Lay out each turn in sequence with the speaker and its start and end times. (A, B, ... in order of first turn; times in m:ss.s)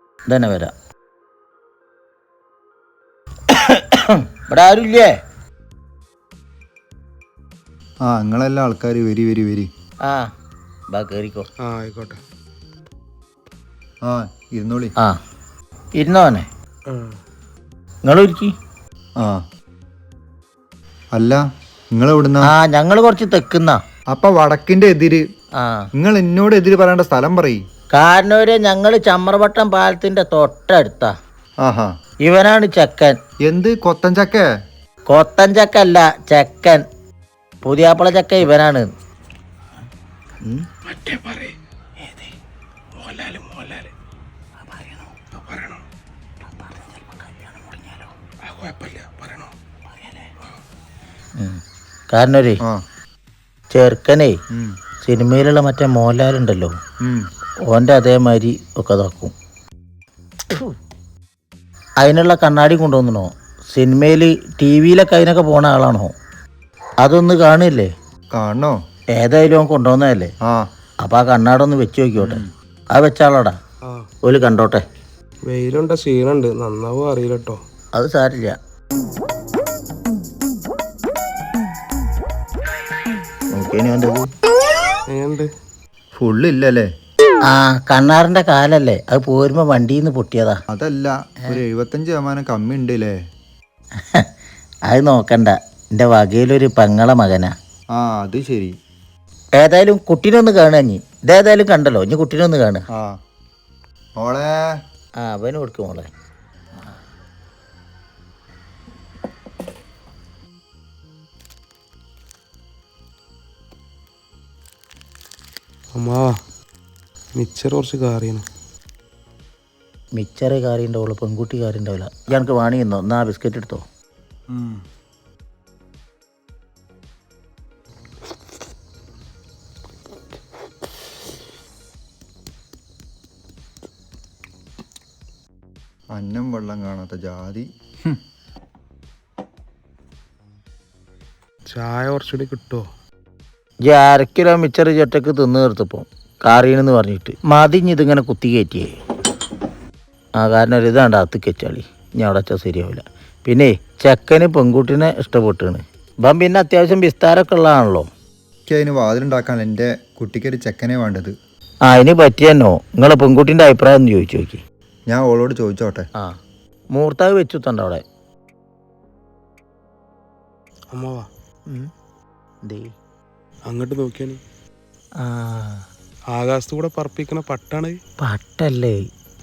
0:00.3-0:00.7 A
0:03.5-0:05.1 A
0:08.1-0:09.7 B
0:10.9-0:11.5 A
0:11.6-0:12.2 C
0:14.0-0:14.9 B
0:16.0-0:16.5 A
0:16.9-0:17.2 C
0:18.0-0:18.5 A
0:21.2-0:21.4 B
0:22.0-0:22.5 B
0:22.4-0:23.8 A
0:24.1-0:25.2 B
0:25.6-0:25.9 A
0:26.0-0:27.6 B
0:27.9-0:31.1 A
0:31.6-0:31.9 B
0:32.2-0:33.2 A
0:33.5-0:34.5 B
0:35.1-0:36.8 A
0:37.6-0:38.9 A
0:40.4-0:40.7 A
0:40.9-0:41.6 C
0:43.0-0:43.9 C
0:45.3-0:45.8 C
0:46.5-0:48.1 A
0:48.4-0:49.5 C
0:51.4-0:52.6 A
0:53.7-0:54.4 A
0:55.0-0:56.7 A
0:57.7-0:59.3 A
1:00.5-1:00.8 A
1:02.0-1:06.1 A
1:07.0-1:07.9 A
1:08.3-1:08.8 B
1:09.2-1:10.3 A
1:11.0-1:13.6 A
1:12.2-1:12.5 B
1:14.2-1:14.8 A
1:15.5-1:17.6 C
1:18.0-1:18.6 A
1:23.5-1:24.3 A
1:25.1-1:25.5 C
1:26.2-1:26.9 B
1:27.5-1:30.6 A
1:30.7-1:33.2 B
1:34.9-1:37.5 A
1:38.0-1:38.7 B
1:39.6-1:42.8 A
1:44.2-1:44.7 B
1:45.2-1:46.1 A
1:56.0-1:56.3 C
1:57.4-1:58.4 C
2:00.2-2:03.8 A
2:16.1-2:18.2 B
2:21.7-2:22.9 C
2:23.9-2:29.0 A
2:30.4-2:38.1 A
2:38.7-2:41.3 B
2:41.8-2:44.6 A
2:45.1-2:46.1 B
2:47.0-2:48.0 A
2:50.9-2:51.3 C
2:52.6-2:52.9 A
2:53.7-2:54.4 C
2:55.2-2:55.8 A
2:56.3-2:58.0 C
2:58.2-2:59.0 A